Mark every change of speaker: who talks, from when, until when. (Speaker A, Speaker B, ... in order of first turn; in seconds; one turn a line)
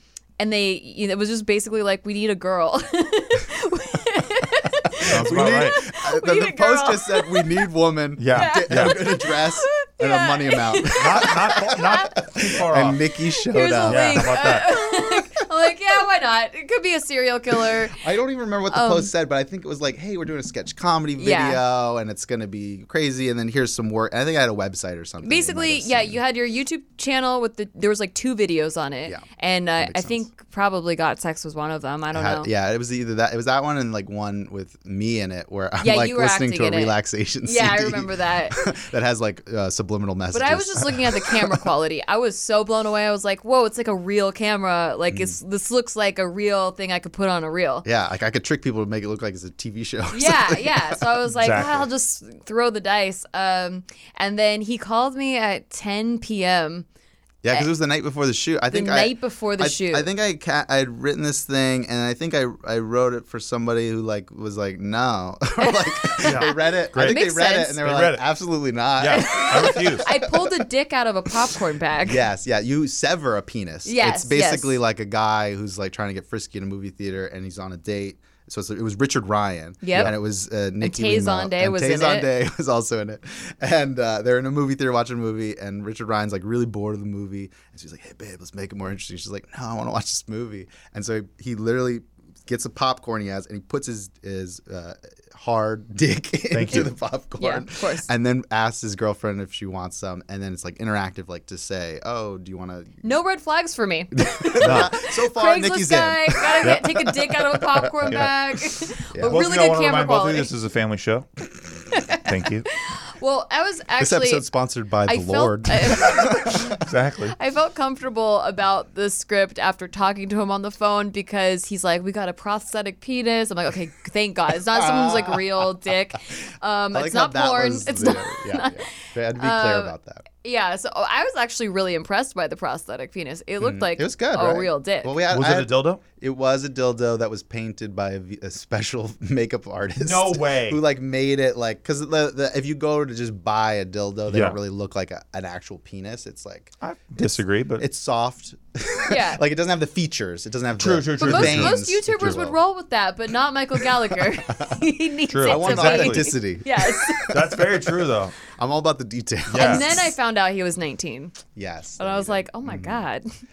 Speaker A: 0.4-7.7
Speaker B: 5.0-14.7
Speaker C: 5.0-5.8
Speaker C: 8.2-9.0
Speaker A: 8.3-12.2
Speaker C: 10.9-13.0
Speaker A: 13.5-18.0
Speaker C: 13.9-14.7
Speaker B: 17.7-26.2
Speaker A: 18.7-19.1
Speaker A: 21.2-21.6
Speaker A: 25.2-32.5
Speaker B: 29.8-30.3
Speaker B: 32.1-41.7
Speaker A: 35.8-38.7
Speaker A: 40.3-47.9
Speaker B: 45.1-45.4
Speaker B: 47.8-51.8
Speaker A: 50.1-56.9
Speaker C: 51.4-51.8
Speaker B: 57.4-70.6
Speaker A: 58.7-60.1
Speaker A: 65.6-67.8
Speaker C: 66.2-67.2
Speaker C: 67.8-68.2
Speaker C: 69.0-70.1
Speaker A: 69.1-72.2
Speaker B: 72.0-103.0
Speaker A: 73.8-74.8
Speaker A: 79.8-80.1
Speaker A: 80.8-82.3
Speaker C: 96.5-96.9
Speaker A: 97.4-98.1
Speaker A: 103.0-110.5
Speaker B: 104.2-108.3
Speaker C: 104.6-105.0
Speaker B: 109.1-109.4
Speaker C: 109.2-112.7
Speaker A: 111.9-114.5
Speaker B: 114.0-116.9
Speaker A: 115.1-135.2
Speaker C: 116.8-117.3
Speaker B: 124.7-125.7
Speaker B: 126.9-130.2
Speaker B: 133.6-152.6
Speaker C: 135.3-136.0
Speaker C: 140.0-140.8
Speaker C: 144.3-144.6
Speaker C: 146.8-147.8
Speaker A: 149.1-149.4
Speaker C: 150.8-152.3
Speaker A: 151.2-157.3
Speaker B: 153.8-154.8
Speaker C: 155.3-156.3
Speaker B: 155.5-160.1
Speaker C: 157.3-158.4
Speaker C: 159.5-159.9
Speaker A: 159.6-161.4
Speaker B: 161.6-163.1
Speaker A: 162.0-163.3